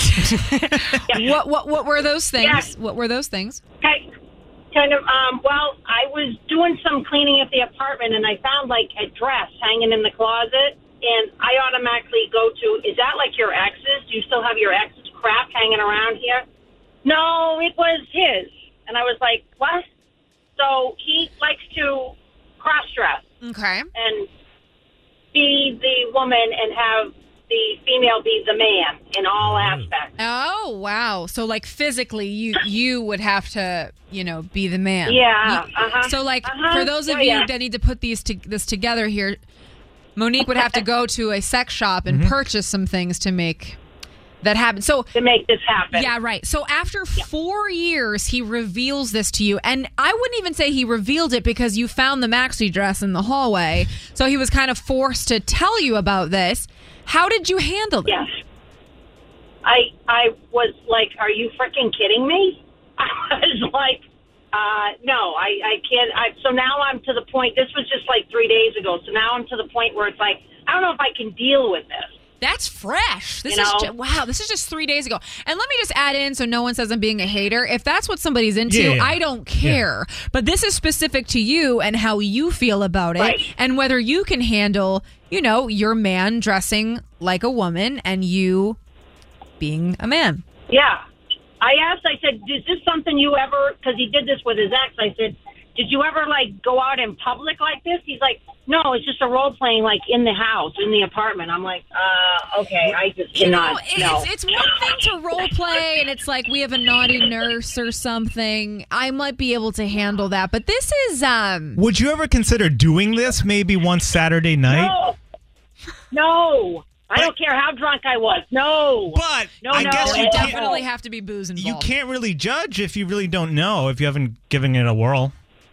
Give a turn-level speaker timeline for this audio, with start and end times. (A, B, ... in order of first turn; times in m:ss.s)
0:00.2-0:03.6 A
0:02.4-0:02.7 B
0:03.8-0:04.1 B
0:04.7-0:16.4 B
0:17.0-0:19.8 B
0:20.6-0:23.2 B
0:23.4-0:23.9 A
0:23.9-0:24.3 B
0:25.3-0:30.1 B
0:29.4-0:29.8 C
0:30.2-0:39.4 A
0:35.0-0:37.5 B
0:40.2-0:43.8 A
0:42.1-0:42.3 C
0:44.4-0:45.1 A
0:45.1-0:46.1 B
0:45.9-0:58.2 A
0:59.6-1:04.0 B
1:04.5-1:12.1 B
1:12.4-1:28.8 A
1:13.5-1:13.9 B
1:18.7-1:19.8 C
1:23.2-1:23.5 B
1:29.6-1:30.4 A
1:30.7-1:31.0 B
1:31.6-1:44.7 B
1:43.3-1:51.8 A
1:51.8-1:55.0 C
1:54.7-1:55.2 B
1:56.1-2:00.8 B
1:59.1-2:00.6 C
1:59.7-2:01.9 A
2:01.6-2:05.3 C